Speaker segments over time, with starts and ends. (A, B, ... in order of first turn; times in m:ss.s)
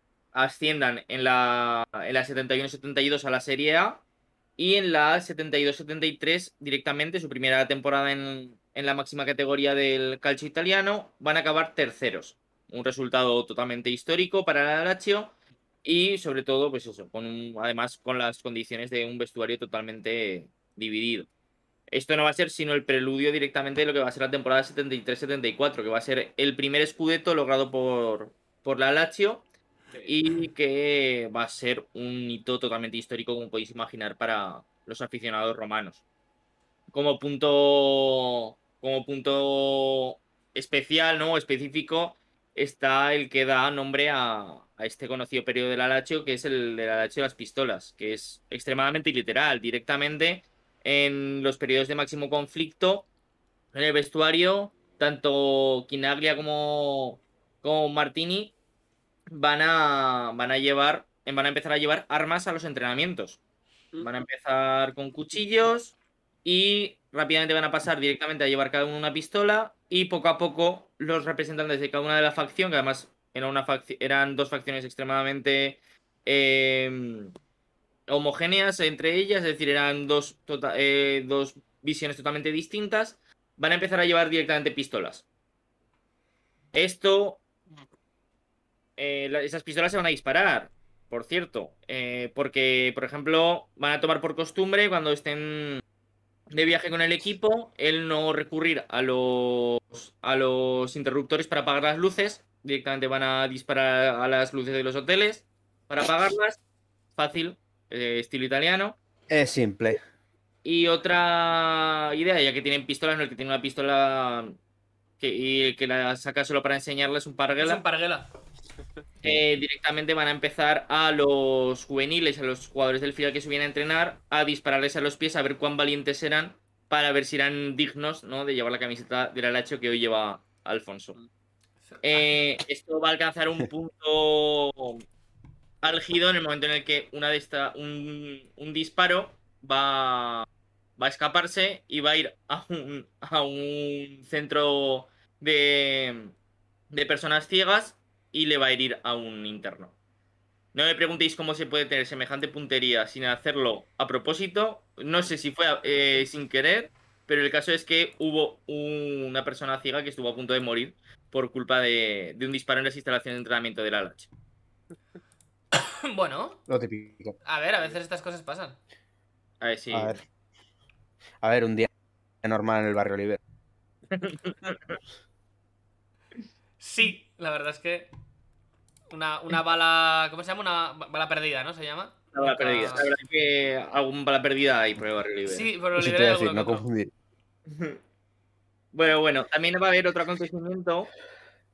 0:00.3-0:04.0 A
0:04.6-0:21.3 A
0:21.9-0:29.5 A
0:30.1-0:36.0 A
0:36.9-0:53.1 A
0:53.7-0:58.5 A
0:59.3-1:03.4 A
1:04.0-1:17.3 A
1:18.1-1:25.2 A
1:26.7-1:27.4 A
1:29.0-1:35.8 A
1:36.5-1:46.6 A
1:47.2-1:49.0 A
1:49.3-1:50.0 B
1:50.6-1:54.6 A
1:55.2-1:57.8 A
1:57.6-1:58.3 C
1:59.2-2:11.2 A
2:11.9-2:12.3 C
2:12.0-2:15.0 A
2:15.8-2:20.5 A
2:21.0-2:26.4 A
2:26.9-2:30.0 A
2:30.7-2:44.3 A
2:45.8-2:46.6 C
2:46.7-2:47.4 B
2:47.4-2:48.8 C
2:49.6-2:50.2 A
2:49.9-2:50.2 B
2:51.4-2:51.9 B
2:52.4-2:53.4 B
2:54.1-2:55.0 A
2:56.8-2:58.1 C
2:59.1-3:03.1 C
3:02.3-3:05.7 A
3:05.5-3:06.8 C
3:06.0-3:07.1 B
3:07.7-3:08.0 A
3:08.9-3:11.1 A